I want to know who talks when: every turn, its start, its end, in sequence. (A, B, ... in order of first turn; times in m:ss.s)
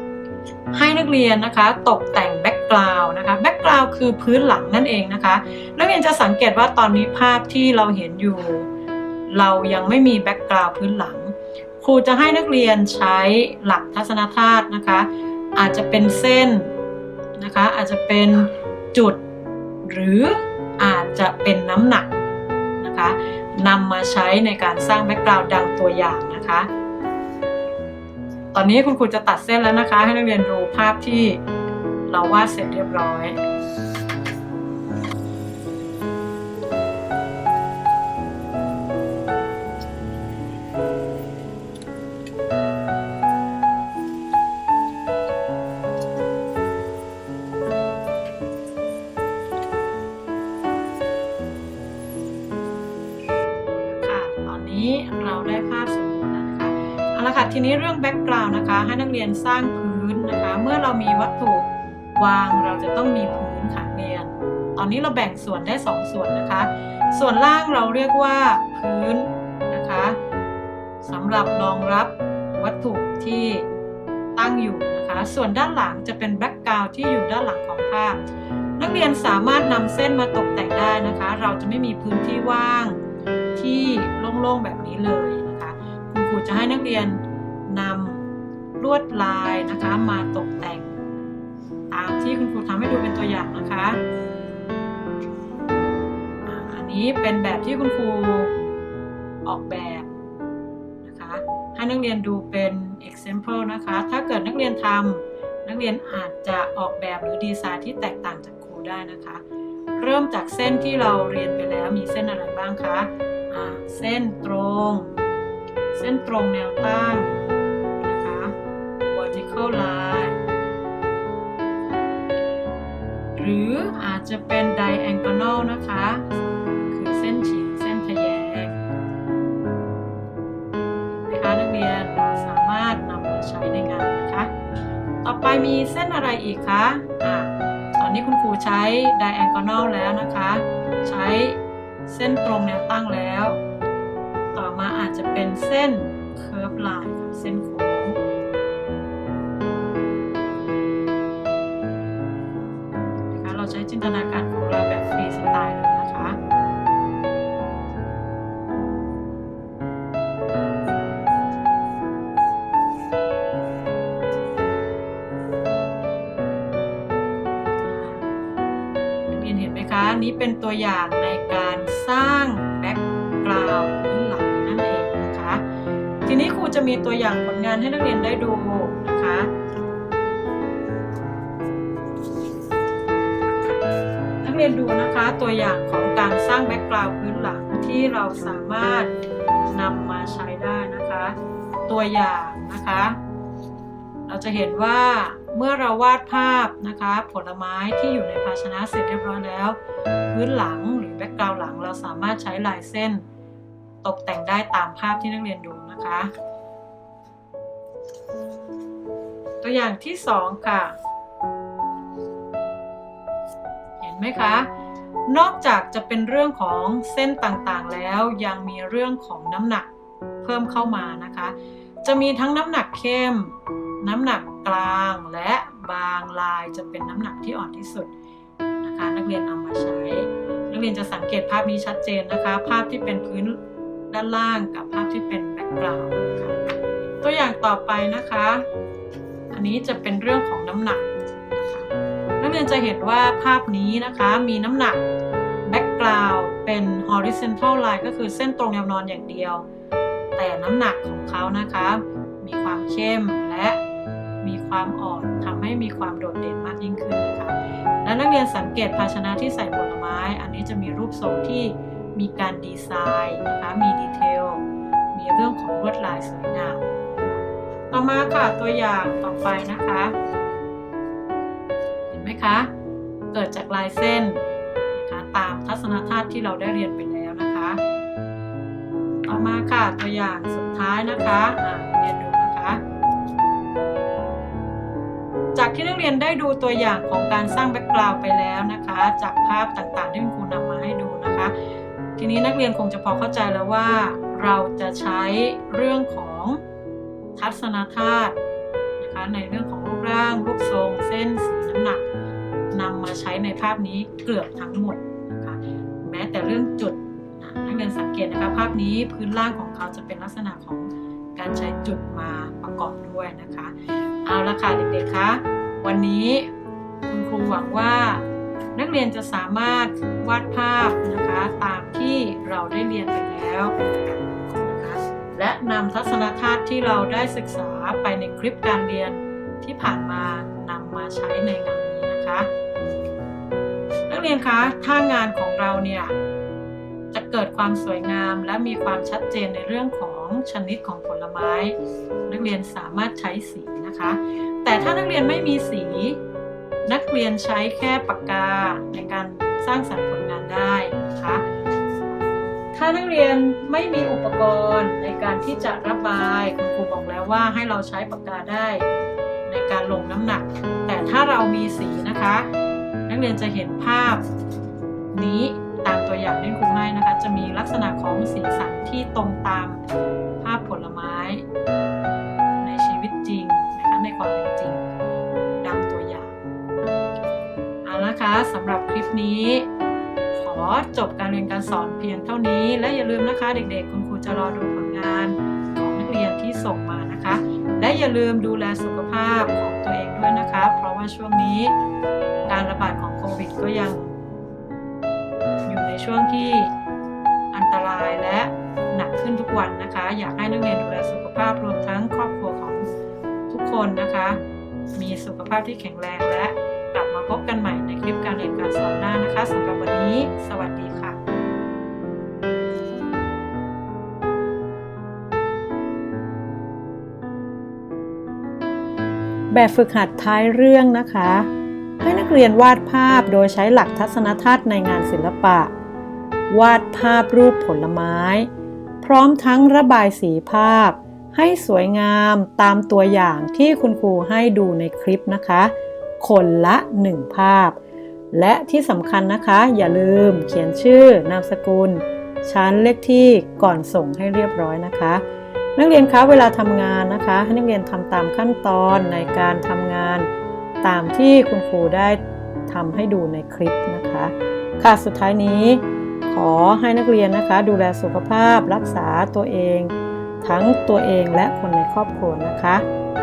0:00.7-0:08.7 A
0:09.3-0:16.7 A
0:17.4-0:19.2 A
0:19.8-0:22.1 A
0:22.8-0:26.7 A
0:28.5-0:31.4 A
0:32.1-0:33.4 A
0:53.7-1:10.2 A
1:11.0-1:13.7 A
1:14.4-1:18.2 A
1:18.8-1:23.0 A
1:23.6-1:28.2 A
1:28.8-1:30.9 A
1:31.9-1:34.0 A
1:36.4-1:38.5 A
1:39.4-1:40.1 A
1:41.0-1:49.4 A
1:50.0-1:55.1 A
1:55.9-1:57.4 A
1:58.0-2:00.4 A
2:03.4-2:08.8 A
2:11.2-2:14.5 A
2:15.2-2:23.6 A
2:24.5-2:28.2 A
2:33.3-2:36.4 A
2:47.8-2:48.2 A
2:49.2-2:55.6 A
2:56.2-2:59.5 A
3:04.4-3:09.1 A
3:09.7-3:13.2 A
3:14.3-3:23.2 A
3:24.0-3:26.3 A
3:29.6-3:30.9 A
3:34.0-3:34.7 A
3:35.3-3:39.9 A
3:40.4-3:48.1 A
3:48.8-3:56.6 A
3:57.2-3:58.6 A
3:59.5-4:05.0 A
4:05.6-4:09.6 A
4:10.4-4:13.8 A
4:14.4-4:30.1 A
4:32.1-4:32.7 A
4:33.3-4:34.4 A
4:34.9-4:37.8 A
4:39.2-4:42.8 A
4:45.5-4:51.5 A
4:52.2-4:56.6 A
4:57.4-4:58.4 A
4:59.0-5:02.0 A
5:02.7-5:16.5 A
5:17.1-5:18.2 A
5:18.7-5:23.8 A
5:24.5-5:32.5 A
5:34.1-5:36.1 A
5:37.1-5:41.8 A
5:42.3-5:46.2 A
5:46.8-5:51.4 A
5:52.7-5:58.8 A
5:59.4-6:02.5 A
6:03.1-6:04.2 A
6:05.1-6:09.8 A
6:10.4-6:11.4 A
6:12.6-6:14.8 A
6:15.6-6:16.4 A
6:17.8-6:19.7 A
6:20.3-6:31.7 A
6:32.5-6:34.1 A
6:35.6-6:36.7 A
6:37.5-6:42.9 A
6:43.5-6:44.4 A
6:44.9-6:51.2 A
6:59.5-7:01.5 A
7:02.0-7:05.7 A
7:06.5-7:08.5 A
7:09.0-7:17.8 A
7:18.3-7:25.2 A
7:25.8-7:30.3 A
7:30.8-7:39.9 A
7:40.4-7:42.8 A